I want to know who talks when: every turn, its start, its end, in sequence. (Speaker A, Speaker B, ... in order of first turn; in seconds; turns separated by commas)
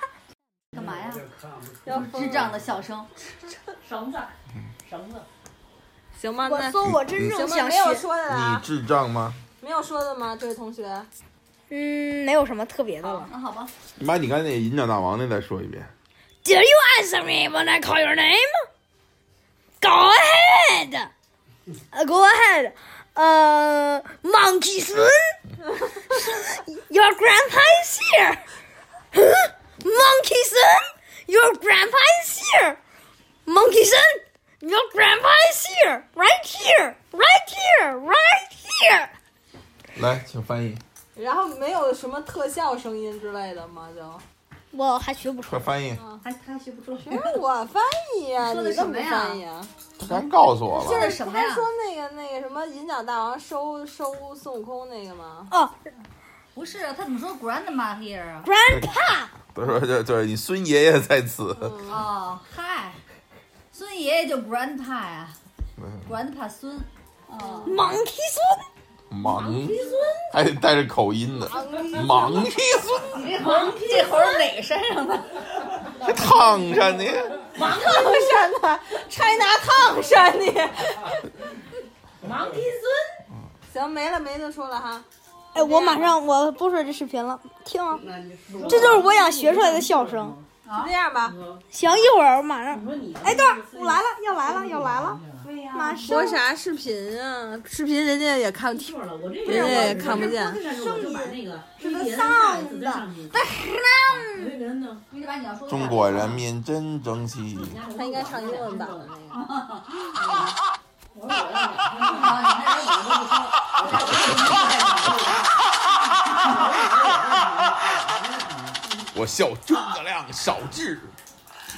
Speaker A: 0.7-1.3, Speaker B: 1.8-2.6, Speaker A: 1.9-3.1, Speaker C: 3.8-5.3, Speaker B: 6.1-8.7, Speaker D: 6.4-8.0, Speaker E: 6.8-7.4, Speaker E: 8.3-9.4, Speaker B: 9.6-11.1, Speaker D: 11.7-13.3, Speaker A: 13.3-13.7, Speaker E: 14.0-15.9, Speaker D: 16.4-18.7, Speaker D: 19.8-21.1, Speaker D: 21.9-25.4, Speaker D: 26.1-28.4, Speaker D: 29.1-32.8, Speaker D: 33.5-39.1, Speaker E: 39.9-40.8, Speaker B: 41.1-44.2, Speaker D: 44.7-45.6, Speaker E: 45.4-46.0, Speaker A: 46.2-47.3, Speaker B: 47.0-49.7, Speaker A: 48.4-49.4, Speaker E: 50.0-51.1, Speaker B: 50.7-55.5, Speaker A: 50.7-51.7, Speaker D: 55.5-55.8, Speaker A: 56.5-58.5, Speaker D: 58.4-59.3, Speaker E: 59.5-61.8, Speaker B: 61.6-62.0, Speaker A: 61.9-63.0, Speaker A: 63.7-65.3, Speaker E: 65.8-66.0, Speaker A: 66.0-67.9, Speaker B: 67.4-67.8, Speaker D: 67.7-68.7, Speaker E: 69.1-69.8, Speaker C: 69.2-70.3, Speaker E: 70.3-73.3, Speaker D: 71.5-72.4, Speaker B: 71.6-72.0, Speaker A: 73.1-75.7, Speaker C: 73.3-74.1, Speaker E: 76.0-77.3, Speaker B: 76.2-81.3, Speaker C: 77.5-78.4, Speaker C: 82.2-83.2, Speaker B: 83.7-86.1, Speaker D: 85.5-88.0, Speaker C: 87.9-90.4, Speaker B: 88.6-89.3, Speaker D: 88.6-90.3, Speaker A: 90.6-90.9, Speaker B: 90.7-91.3, Speaker C: 91.2-91.6, Speaker D: 91.7-96.4, Speaker C: 92.7-96.2, Speaker B: 96.0-100.6, Speaker C: 98.7-103.4, Speaker D: 99.4-104.6, Speaker C: 104.1-105.0, Speaker A: 105.1-106.4, Speaker E: 105.7-107.8, Speaker C: 107.5-109.1, Speaker B: 107.9-109.4, Speaker A: 109.3-110.5, Speaker C: 110.2-110.5, Speaker C: 111.1-112.6, Speaker A: 111.8-115.5, Speaker C: 113.8-114.3, Speaker A: 116.3-116.6, Speaker C: 116.4-118.8, Speaker E: 119.1-121.1